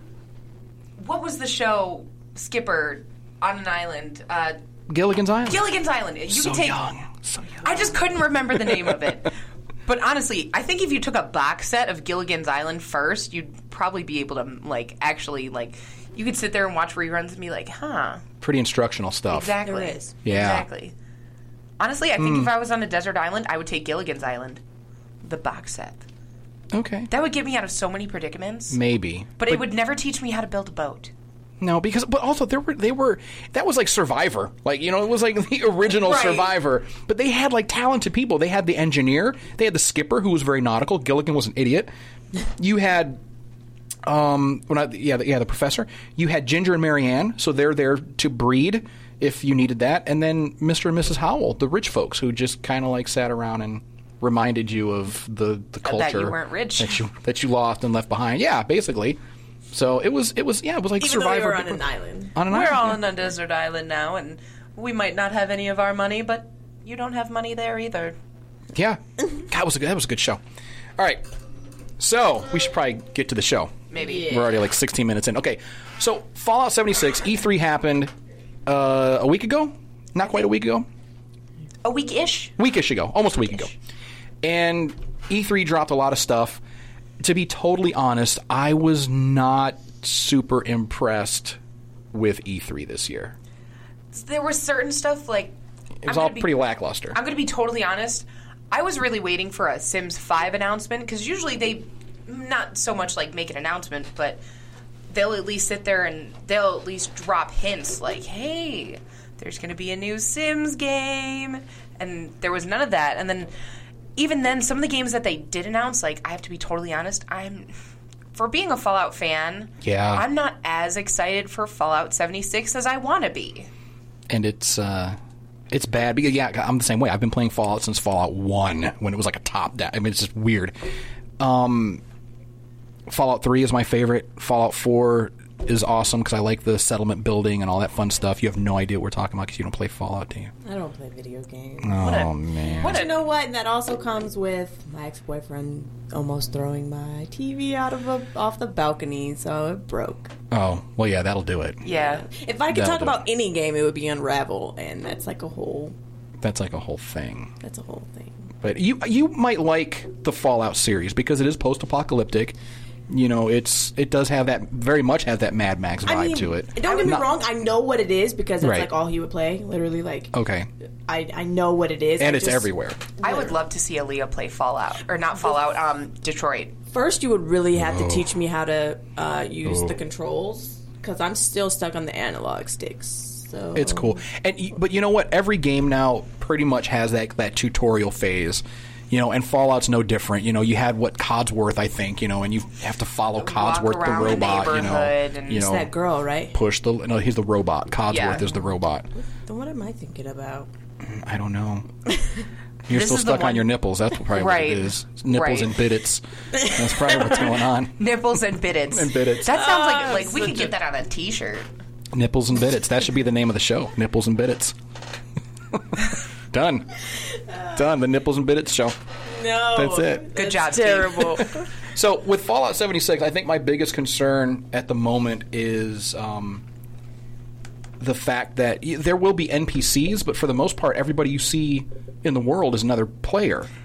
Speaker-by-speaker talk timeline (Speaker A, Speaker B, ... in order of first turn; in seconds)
Speaker A: 1.0-4.6, 5.5-6.8, 7.6-9.3, 9.9-18.2, 19.3-20.9, 21.8-24.6, 25.2-26.0, 27.1-28.8, 29.4-31.1, 36.0-36.5, 55.8-57.0, 62.4-68.2, 73.9-74.5, 81.8-82.5, 94.1-96.5, 97.1-104.4, 105.1-113.5, 114.2-117.7, 118.3-123.7, 142.0-143.2, 151.8-152.2, 166.8-167.2, 173.2-176.7, 193.4-195.7, 198.1-198.4, 202.9-203.7, 204.3-205.8, 208.0-211.7, 220.3-221.5
Speaker B: 4.9-5.6, 6.3-8.0, 8.6-9.0, 18.4-19.6, 20.2-20.7, 22.2-22.5, 26.7-27.1, 28.7-29.6, 31.6-41.9, 42.6-43.2, 44.0-59.2, 59.7-61.8, 62.3-63.0, 68.7-70.4, 71.0-71.2, 72.0-78.1, 78.7-80.8, 82.6-83.7, 84.4-86.6, 87.2-91.6, 92.1-93.3, 96.0-97.2, 119.8-120.3, 124.3-125.2, 125.7-130.8, 131.4-132.0, 133.1-140.5, 141.8-143.0, 150.5-151.8, 152.7-153.2, 156.4-157.5, 158.6-162.6, 163.1-167.3, 168.6-168.9, 170.3-170.7, 172.2-173.0, 177.8-178.2, 179.7-179.9, 183.7-195.9, 196.5-199.1, 201.0-201.9, 202.9-208.1, 208.9-209.5, 212.1-214.8, 215.7-217.0, 217.7-219.0, 219.7-220.3, 221.4-226.6, 228.0-233.7
Speaker C: 19.6-20.2, 61.0-62.4, 74.0-74.5, 140.6-150.3, 151.9-155.9, 157.6-158.5, 166.0-170.3, 171.1-172.7, 173.2-173.5, 176.9-184.2, 195.6-196.6, 199.1-200.7, 206.6-207.2, 209.4-210.7, 219.2-221.7